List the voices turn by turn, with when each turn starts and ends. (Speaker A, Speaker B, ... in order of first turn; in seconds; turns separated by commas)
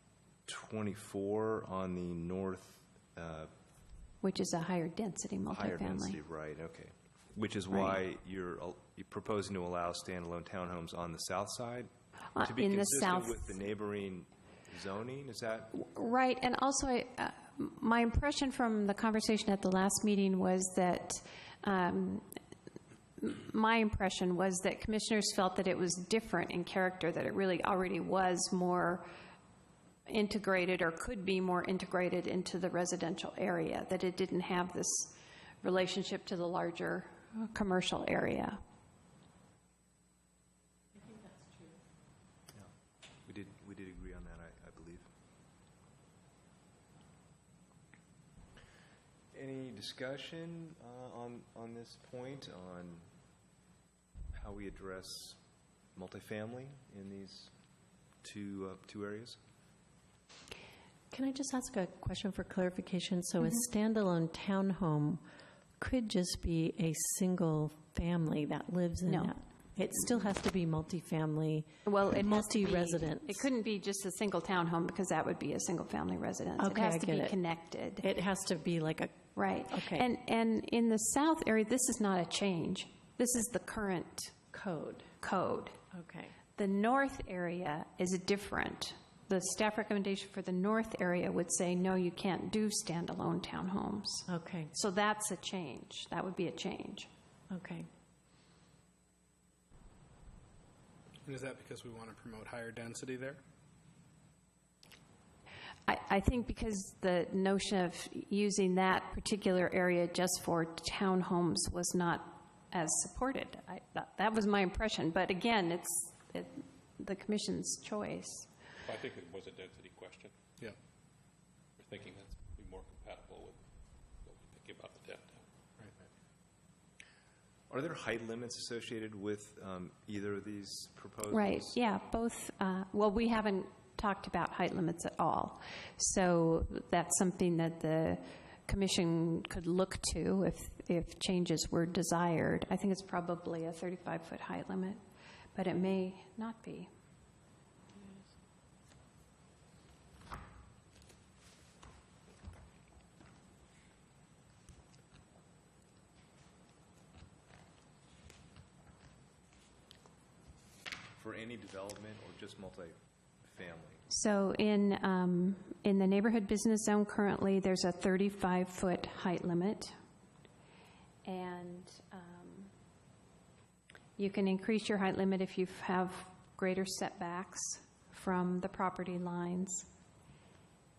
Speaker A: 0.5-3.5, Speaker B: 4.2-6.2, Speaker A: 5.5-15.8, Speaker B: 7.7-8.0, Speaker B: 12.3-13.5, Speaker B: 15.8-22.3, Speaker B: 23.2-29.1, Speaker B: 30.1-38.6, Speaker C: 41.0-41.8, Speaker A: 43.3-45.1, Speaker A: 49.3-53.1, Speaker A: 54.3-55.4, Speaker A: 56.0-57.5, Speaker A: 58.2-59.4, Speaker C: 61.1-65.2, Speaker C: 65.8-73.5, Speaker B: 69.1-69.3, Speaker B: 71.9-78.1, Speaker C: 76.6-77.4, Speaker C: 78.0-80.1, Speaker B: 79.4-84.4, Speaker C: 84.5-85.1, Speaker B: 85.2-85.8, Speaker C: 85.9-86.3, Speaker B: 86.6-97.1, Speaker C: 94.3-94.7, Speaker C: 97.5-97.9, Speaker D: 101.2-103.4, Speaker B: 105.9-118.5, Speaker E: 118.9-120.4, Speaker E: 121.8-123.6, Speaker E: 124.2-125.4, Speaker A: 127.7-131.8, Speaker B: 131.3-145.0, Speaker B: 145.6-146.9, Speaker A: 161.2-164.0, Speaker B: 164.1-169.9, Speaker B: 171.2-172.7, Speaker B: 174.2-179.9